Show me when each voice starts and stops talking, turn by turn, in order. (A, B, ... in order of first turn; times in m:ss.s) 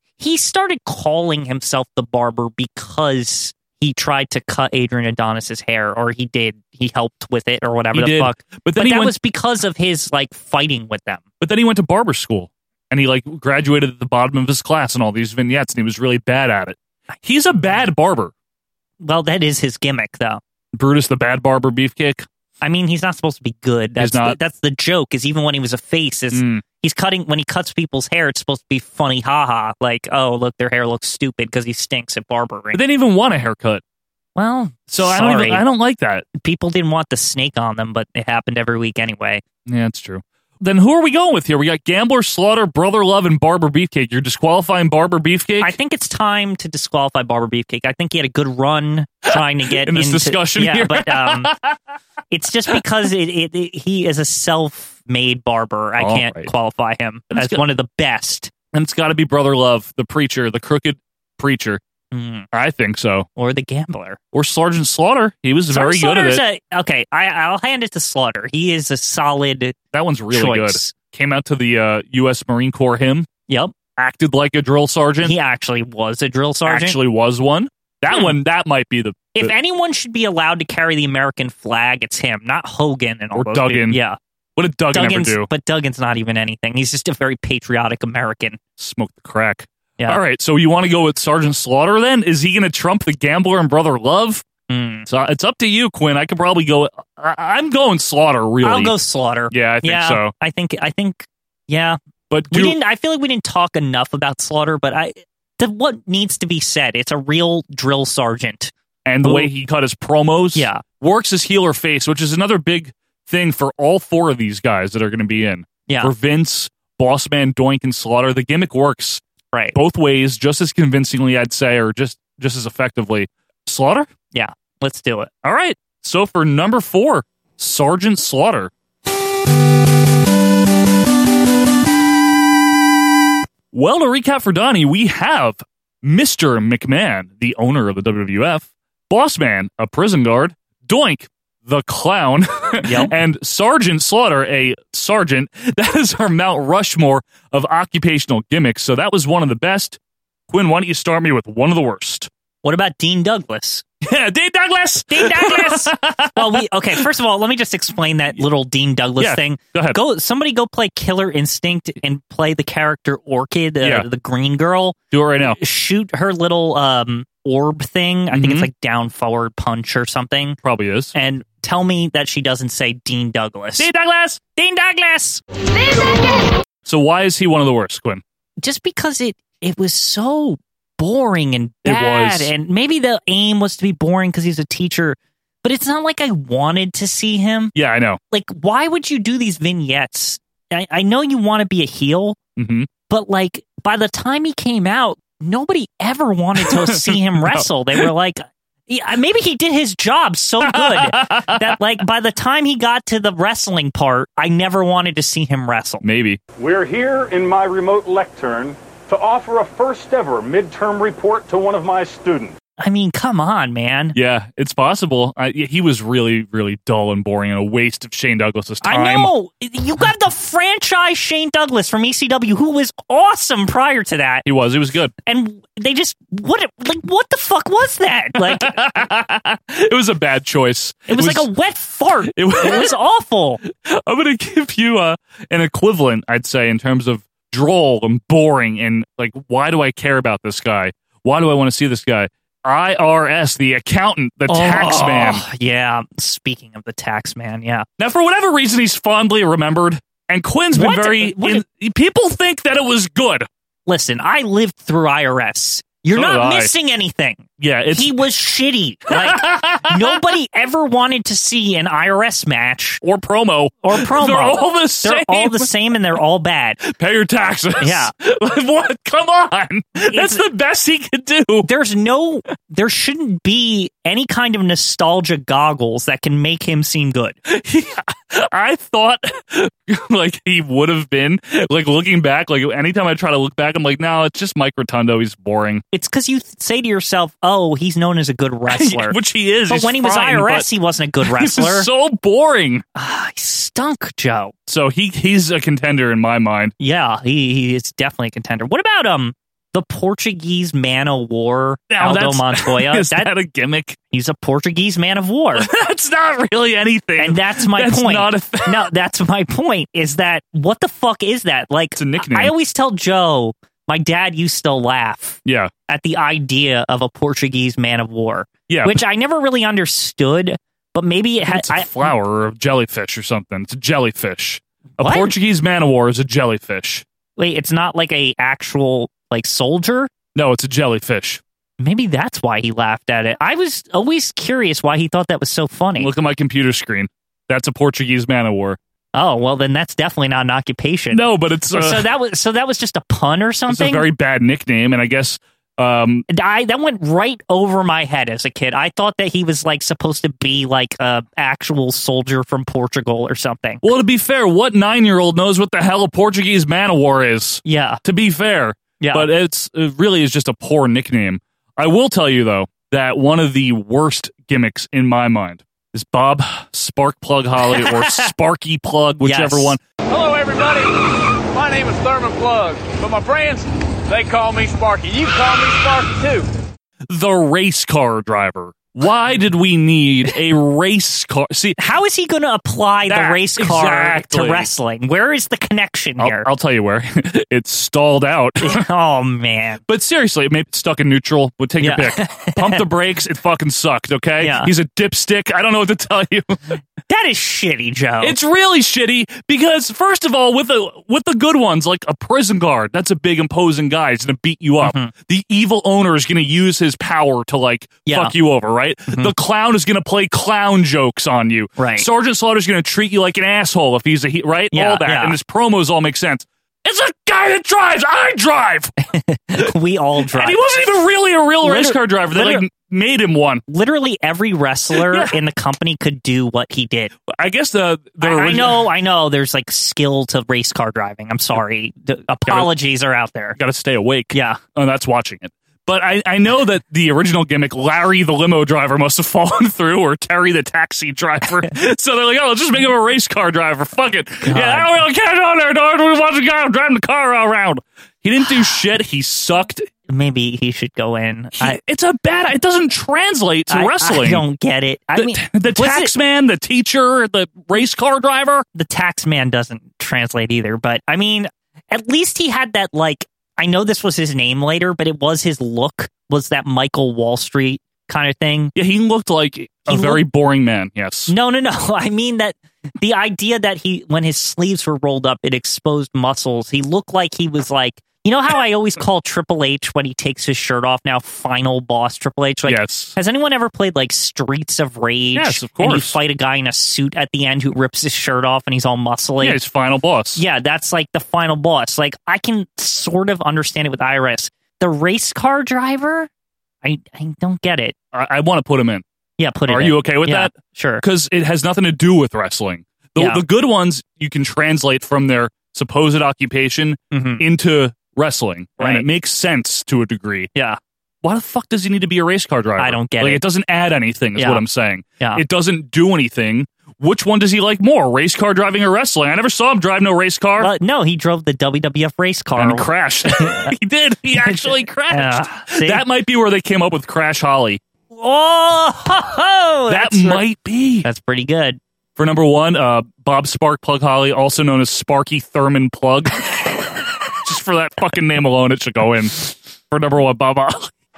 0:00.2-0:11.2 A
0:07.9-0:09.1 B
0:11.4-0:18.3 B
0:19.0-0:20.4 A
0:20.7-0:22.3 B
0:22.6-0:32.8 A
0:24.0-0:24.4 B
0:26.3-0:26.6 B
0:32.7-0:33.8 B
0:34.4-0:35.6 A
0:34.9-0:36.2 B
0:36.4-0:39.4 A
0:39.7-0:45.8 B
0:45.6-0:51.5 A
0:49.3-0:51.8 B
0:52.3-0:58.5 A
0:56.0-0:56.5 B
0:57.3-0:57.6 B
0:58.7-1:01.8 B
1:02.1-1:02.5 A
1:02.5-1:03.3 B
1:03.4-1:04.2 A
1:04.3-1:06.4 B
1:05.7-1:09.8 A
1:09.9-1:13.3 B
1:10.3-1:10.9 A
1:13.5-1:13.8 A
1:14.0-1:15.4 B
1:15.2-1:17.0 A
1:16.7-1:19.5 B
1:18.1-1:18.4 A
1:19.4-1:24.2 A
1:23.3-1:24.0 B
1:24.6-1:25.5 B
1:24.9-1:28.6 A
1:28.8-1:34.4 B
1:34.7-1:35.1 A
1:35.1-1:39.0 B
1:38.6-1:42.0 A
1:39.5-1:40.3 B
1:42.3-1:42.8 B
1:42.5-1:49.5 A
1:49.0-1:59.2 B
1:50.6-1:50.8 A
1:55.9-1:56.1 A
1:59.5-1:59.8 A
1:59.7-2:04.1 B
2:04.3-2:05.3 A
2:05.4-2:08.7 B
2:13.7-2:32.3 B
2:22.8-2:23.1 A
2:32.6-2:33.8 A
2:34.0-2:37.0 B
2:35.1-2:50.6 A
2:39.2-2:40.0 B
2:43.8-2:44.1 B
2:45.1-2:45.6 B
2:48.3-2:48.7 B
2:50.6-2:51.1 B
2:51.1-2:53.9 A
2:53.8-2:54.4 B
2:54.6-2:55.4 A
2:56.8-2:58.2 B
2:58.6-3:07.7 A
3:01.8-3:02.5 B
3:07.8-3:08.2 B
3:08.3-3:12.4 A
3:12.6-3:12.9 B
3:13.1-3:26.0 A
3:16.6-3:18.1 B
3:20.6-3:21.8 B
3:26.0-3:26.4 B
3:26.6-3:28.3 C
3:27.6-3:28.7 B
3:29.1-3:31.9 C
3:30.1-3:32.5 B
3:32.8-3:34.2 A
3:34.1-3:39.3 B
3:38.8-3:44.5 A
3:44.4-3:45.1 B
3:45.3-3:48.9 A
3:48.4-3:51.5 B
3:51.1-3:53.6 A
3:52.3-3:53.0 B
3:53.7-4:05.4 B
4:04.5-4:07.9 A
4:08.0-4:13.5 B
4:10.7-4:11.6 A
4:13.9-4:23.0 A
4:16.1-4:16.7 B
4:17.6-4:18.2 B
4:19.1-4:20.3 B
4:23.0-4:25.7 B
4:23.8-4:26.8 A
4:26.8-4:31.7 B
4:27.8-4:28.1 A
4:30.1-4:30.4 A
4:31.6-4:37.4 A
4:37.5-4:45.8 B
4:45.9-4:51.9 A
4:48.7-4:50.7 B
4:51.2-4:52.8 B
4:53.0-4:54.5 A
4:54.7-4:56.7 B
4:56.8-5:03.3 A
5:01.9-5:04.0 B
5:04.1-5:05.7 A
5:05.6-5:08.9 B
5:07.2-5:22.1 A
5:12.0-5:12.6 B
5:15.4-5:15.7 B
5:18.7-5:19.0 B
5:21.5-5:27.0 B
5:25.0-5:25.4 A
5:27.4-5:30.1 A
5:30.4-5:31.4 B
5:31.8-5:36.1 A
5:36.0-5:38.8 B
5:39.1-5:44.0 A
5:41.1-5:42.1 B
5:43.7-5:46.3 B
5:46.3-5:53.9 A
5:53.8-6:09.8 B
5:57.6-5:58.0 A
5:59.0-5:59.3 A
6:07.7-6:08.3 A
6:09.2-6:09.8 A
6:10.1-6:10.9 D
6:11.5-6:16.4 D
6:17.1-6:21.8 B
6:21.8-6:26.5 A
6:23.1-6:24.7 B
6:26.2-6:28.8 B
6:28.6-6:29.8 A
6:29.9-6:36.8 B
6:31.8-6:32.8 A
6:34.4-6:34.7 A
6:37.1-6:38.4 A
6:38.2-6:58.9 B
6:44.8-6:45.1 A
6:48.1-6:48.4 A
6:51.8-6:52.1 A
6:54.7-6:55.4 A
6:59.1-7:01.0 A
7:00.3-7:03.6 B
7:01.6-7:02.7 A
7:03.7-7:07.1 A
7:04.9-7:05.4 B
7:07.3-7:08.9 B
7:08.2-7:13.6 A
7:12.5-7:12.8 B
7:13.6-7:29.9 B
7:14.3-7:14.6 A
7:24.4-7:25.0 A
7:30.1-7:31.8 A
7:31.6-7:34.4 B
7:33.7-7:36.1 A
7:35.1-7:38.7 B
7:38.8-7:48.7 A
7:48.8-7:51.3 B
7:49.9-7:50.2 A
7:51.3-8:09.6 A
8:02.7-8:03.1 B
8:05.3-8:06.2 B
8:09.4-8:10.4 B
8:10.4-8:16.3 A
8:16.8-8:18.0 A
8:18.1-8:19.0 B
8:19.4-8:21.0 A
8:19.7-8:30.5 B
8:23.2-8:23.4 A
8:27.1-8:27.4 A
8:28.8-8:29.1 A
8:31.2-8:40.7 B
8:32.8-8:33.4 A
8:34.4-8:34.6 A
8:40.6-8:43.7 A
8:42.6-8:47.8 B
8:44.4-8:46.0 A
8:48.1-8:50.4 A
8:49.9-8:51.1 B
8:51.0-8:51.8 A
8:52.2-8:56.6 B
8:57.4-9:00.9 B